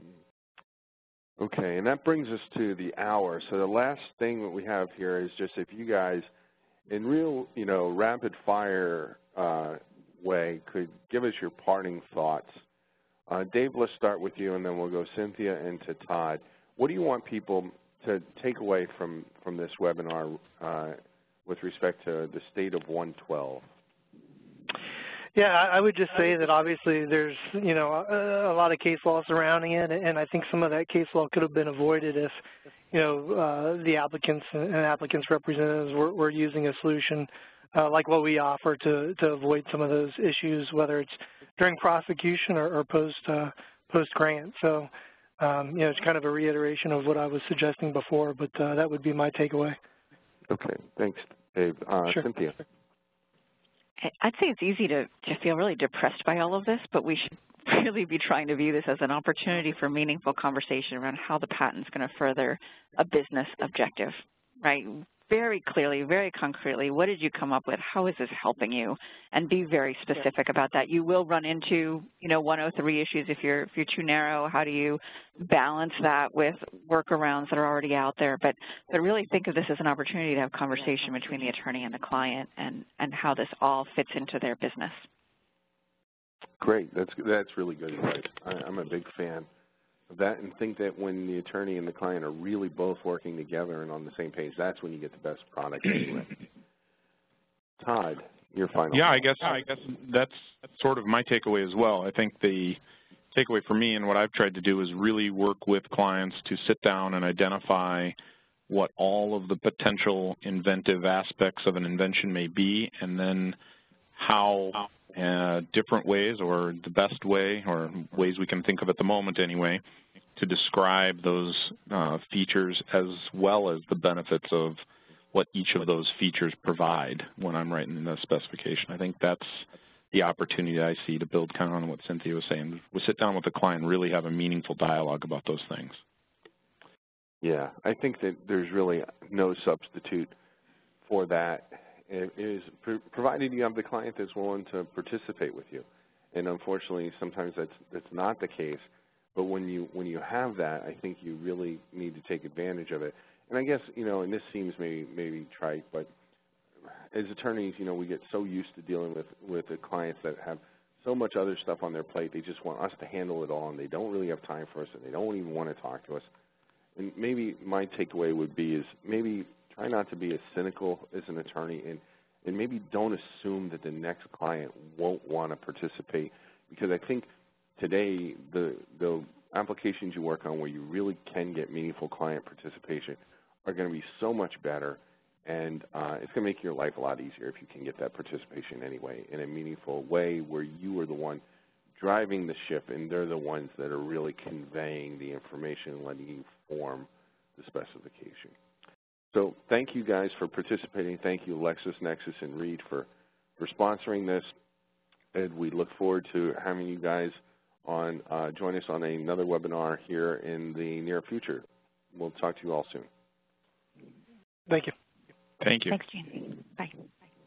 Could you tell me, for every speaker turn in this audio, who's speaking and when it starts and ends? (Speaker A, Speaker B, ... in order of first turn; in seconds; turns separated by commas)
Speaker A: 1.4-6.3, Speaker A: 6.9-12.6, Speaker A: 13.3-23.6, Speaker B: 25.3-32.4, Speaker B: 32.9-49.8, Speaker A: 50.5-52.6, Speaker C: 54.0-85.0, Speaker A: 86.6-89.5, Speaker A: 90.1-96.4, Speaker A: 97.8-99.6, Speaker D: 98.9-102.8, Speaker D: 103.3-108.1, Speaker D: 108.7-113.5, Speaker D: 114.1-119.8, Speaker D: 120.3-124.8, Speaker D: 125.3-136.0, Speaker A: 137.4-140.3, Speaker A: 141.0-156.1, Speaker A: 156.8-166.3, Speaker A: 166.9-191.4, Speaker A: 192.0-198.5, Speaker A: 199.3-203.1, Speaker A: 203.6-204.5, Speaker A: 205.3-213.1, Speaker B: 214.7-214.9, Speaker D: 215.6-216.0, Speaker C: 215.9-216.9